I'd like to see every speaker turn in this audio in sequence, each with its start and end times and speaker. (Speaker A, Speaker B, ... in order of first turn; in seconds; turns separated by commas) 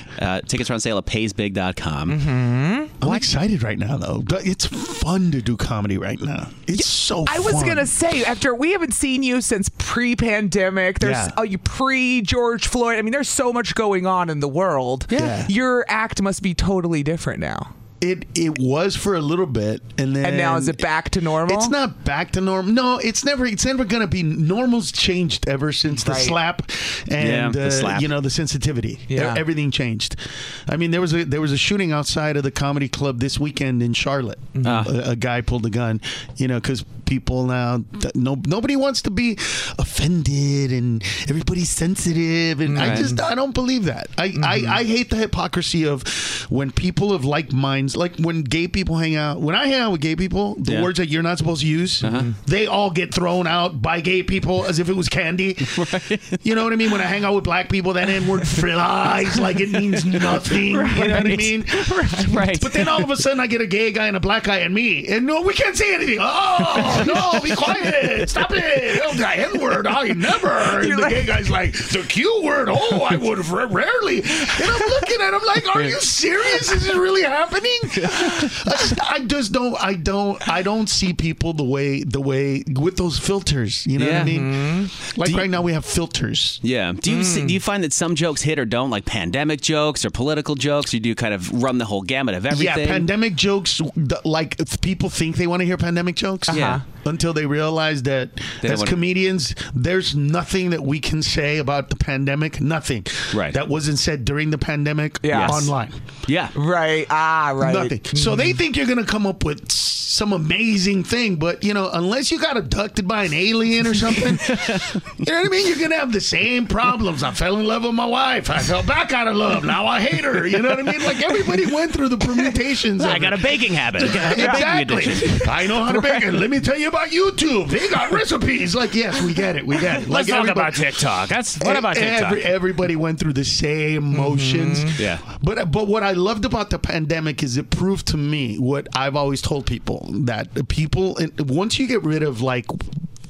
Speaker A: 0.2-2.2, Speaker B: 2.1-3.2, Speaker C: 3.0-7.9, Speaker B: 6.7-17.7, Speaker C: 11.0-11.3, Speaker C: 15.1-15.5, Speaker C: 18.0-20.8, Speaker B: 20.2-21.7, Speaker C: 21.4-55.8, Speaker B: 25.9-26.4, Speaker A: 27.2-28.1, Speaker B: 29.1-29.4, Speaker B: 34.5-34.8, Speaker A: 34.6-34.9, Speaker A: 42.7-43.2, Speaker B: 42.7-43.2, Speaker B: 44.4-44.8, Speaker A: 52.0-52.3, Speaker B: 52.0-52.3, Speaker A: 55.7-56.4, Speaker C: 56.4-86.6, Speaker B: 60.7-62.4, Speaker A: 61.0-61.3, Speaker A: 62.3-63.0, Speaker B: 70.6-71.5, Speaker A: 77.9-78.5, Speaker A: 84.0-84.5, Speaker B: 84.2-84.9, Speaker A: 85.2-85.5, Speaker A: 86.6-93.1, Speaker B: 87.1-87.6, Speaker C: 92.5-106.0, Speaker B: 96.5-96.8, Speaker A: 96.5-96.8, Speaker A: 98.6-99.0, Speaker A: 103.3-103.6, Speaker B: 105.2-105.6, Speaker A: 105.3-105.7, Speaker A: 106.3-106.5, Speaker B: 106.5-108.6, Speaker C: 107.6-131.0, Speaker A: 114.5-115.0, Speaker A: 123.0-125.4, Speaker B: 124.3-125.7, Speaker A: 130.0-132.4, Speaker C: 131.6-142.9, Speaker B: 134.1-135.0, Speaker A: 135.0-135.2